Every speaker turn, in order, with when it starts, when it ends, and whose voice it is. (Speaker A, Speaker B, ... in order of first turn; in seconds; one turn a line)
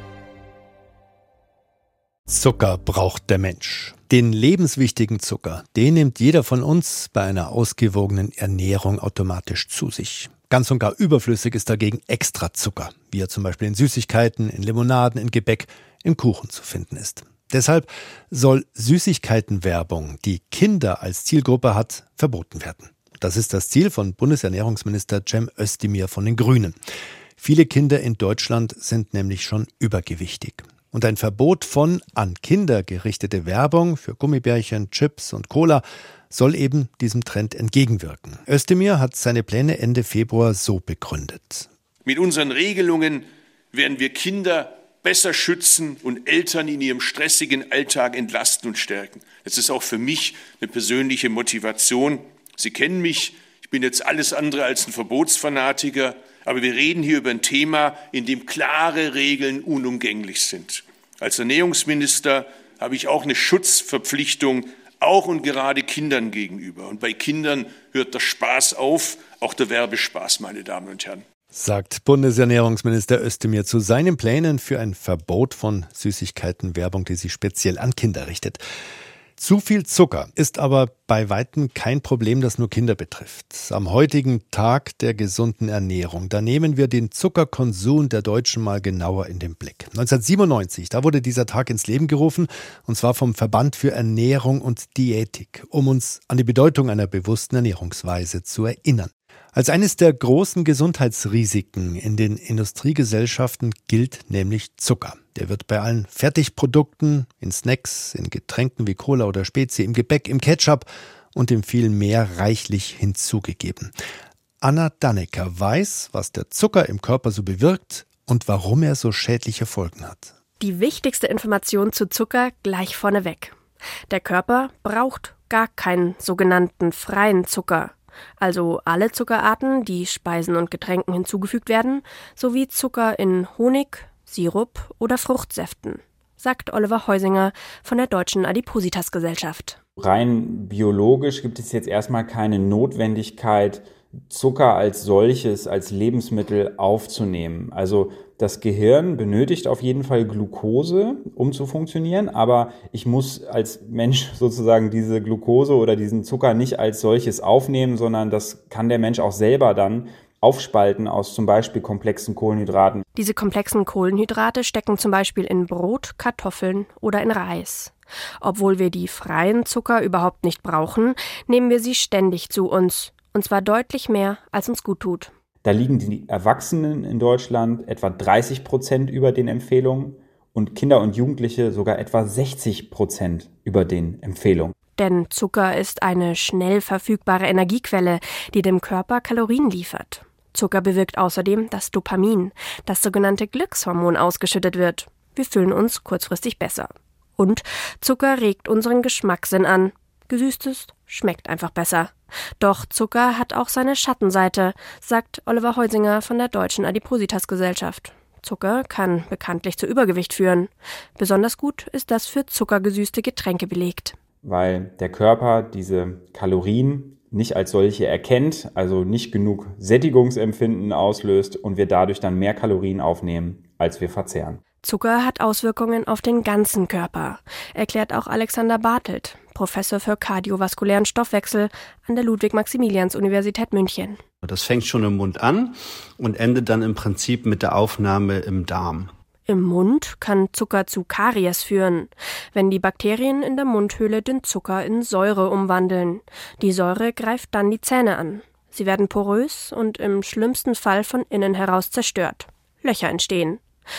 Speaker A: 2.3-26.8
Speaker A: 27.4-41.7
Speaker B: 42.0-71.2
Speaker A: 71.5-78.6
Speaker A: 79.4-113.9
Speaker A: 114.6-120.3
Speaker C: 120.6-123.5
Speaker C: 124.1-139.8
Speaker D: 140.0-163.0
Speaker C: 163.1-175.3
Speaker D: 175.6-184.7
Speaker C: 185.0-214.2
Speaker D: 214.4-224.6
Speaker C: 224.8-234.2
Speaker E: 234.4-239.1
Speaker C: 239.5-253.6